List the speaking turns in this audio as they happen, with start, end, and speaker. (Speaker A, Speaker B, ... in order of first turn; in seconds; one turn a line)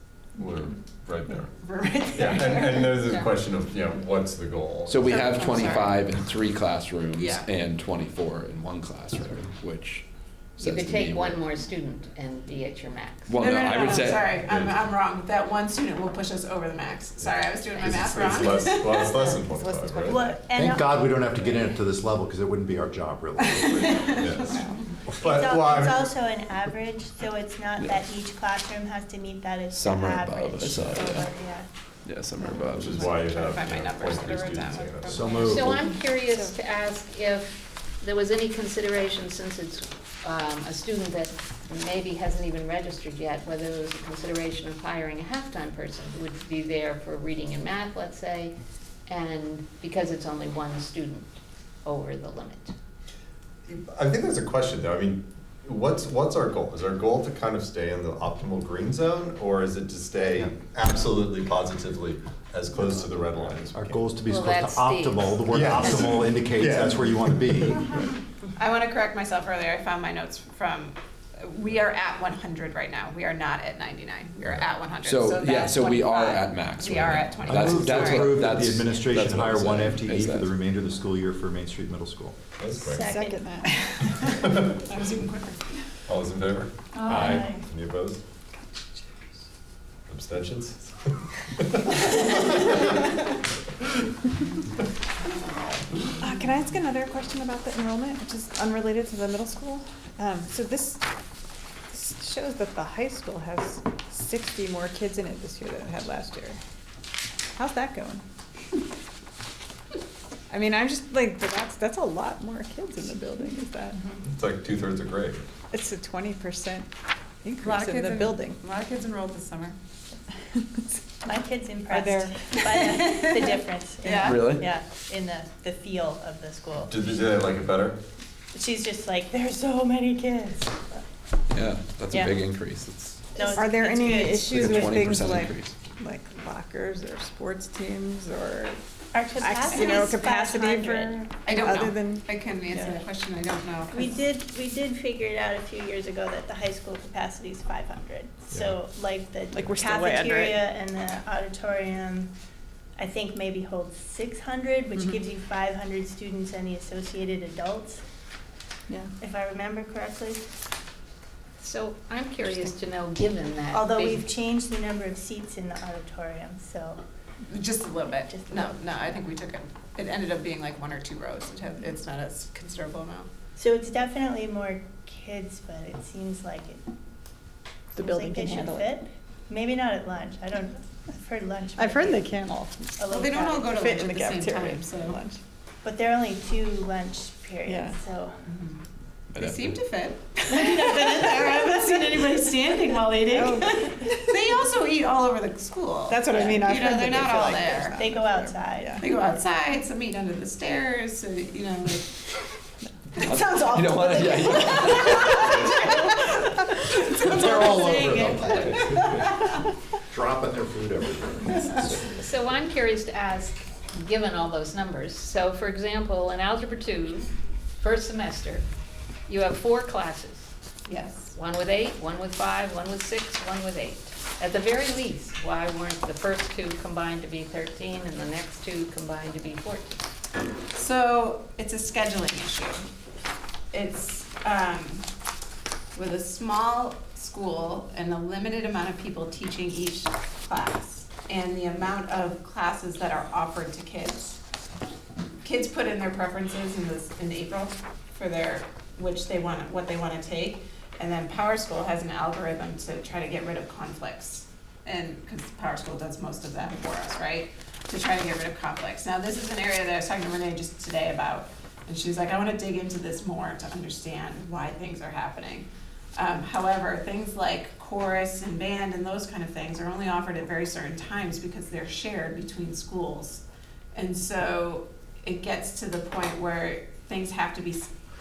Speaker A: 0.4-1.5
Speaker B: 1.6-3.0
Speaker A: 2.1-5.7
Speaker C: 3.0-3.4
Speaker D: 4.9-10.0
Speaker B: 5.1-6.0
Speaker B: 7.2-7.5
Speaker D: 10.6-11.4
Speaker C: 10.6-13.4
Speaker D: 13.3-14.4
Speaker B: 13.3-20.1
Speaker A: 14.3-14.8
Speaker A: 17.2-20.3
Speaker E: 20.0-21.4
Speaker F: 20.5-24.3
Speaker B: 23.5-24.7
Speaker A: 24.2-24.6
Speaker E: 25.2-31.7
Speaker A: 25.2-26.2
Speaker D: 29.7-31.3
Speaker D: 32.0-33.2
Speaker A: 32.7-35.8
Speaker B: 32.8-35.7
Speaker F: 35.1-35.8
Speaker C: 35.4-48.5
Speaker G: 36.2-36.5
Speaker C: 49.1-51.3
Speaker C: 51.8-52.7
Speaker A: 53.7-64.0
Speaker F: 63.7-67.9
Speaker C: 64.2-66.3
Speaker A: 65.5-67.8
Speaker B: 68.6-78.8
Speaker D: 75.0-80.5
Speaker F: 77.5-82.4
Speaker A: 82.6-83.2
Speaker E: 82.8-83.8
Speaker G: 82.9-85.5
Speaker A: 84.2-84.7
Speaker A: 86.1-88.2
Speaker E: 87.0-87.6
Speaker A: 90.1-93.1
Speaker G: 96.2-101.0
Speaker G: 101.9-106.6
Speaker G: 107.5-108.2
Speaker G: 110.5-114.0
Speaker A: 114.2-115.4
Speaker G: 115.7-116.9
Speaker G: 117.4-118.6
Speaker B: 117.6-119.8
Speaker E: 121.2-127.1
Speaker G: 121.9-122.3
Speaker B: 122.6-123.5
Speaker B: 124.0-124.5
Speaker D: 124.2-124.7
Speaker A: 126.9-128.0
Speaker E: 128.5-131.0
Speaker D: 131.5-133.3
Speaker E: 133.3-134.9
Speaker G: 133.3-138.8
Speaker D: 134.4-135.8
Speaker E: 139.1-141.3
Speaker G: 139.4-143.0
Speaker B: 139.7-140.1
Speaker B: 141.4-144.2
Speaker E: 143.9-152.3
Speaker G: 149.5-150.7
Speaker E: 153.0-158.0
Speaker G: 154.9-155.2
Speaker E: 159.2-160.4
Speaker C: 161.6-164.3
Speaker E: 163.7-167.0
Speaker B: 167.5-173.3
Speaker E: 168.3-168.8
Speaker E: 173.6-176.8
Speaker G: 177.9-179.0
Speaker E: 177.9-182.3
Speaker G: 181.8-183.0
Speaker E: 183.0-183.8
Speaker B: 183.1-185.2
Speaker G: 183.7-185.4
Speaker E: 185.8-188.4
Speaker G: 187.7-188.0
Speaker B: 188.5-188.8
Speaker D: 189.3-189.8
Speaker B: 189.3-198.0
Speaker E: 190.5-191.0
Speaker G: 193.3-193.9
Speaker G: 196.1-199.0
Speaker E: 197.8-199.0
Speaker B: 199.0-202.2
Speaker D: 203.2-205.9
Speaker B: 203.2-209.3
Speaker F: 207.2-209.3
Speaker F: 210.1-212.0
Speaker C: 212.2-218.6
Speaker C: 219.3-220.5
Speaker B: 220.9-221.3
Speaker C: 221.3-230.0
Speaker B: 230.7-232.8
Speaker B: 233.7-235.1
Speaker B: 235.9-244.4
Speaker B: 245.4-273.4
Speaker B: 273.9-277.9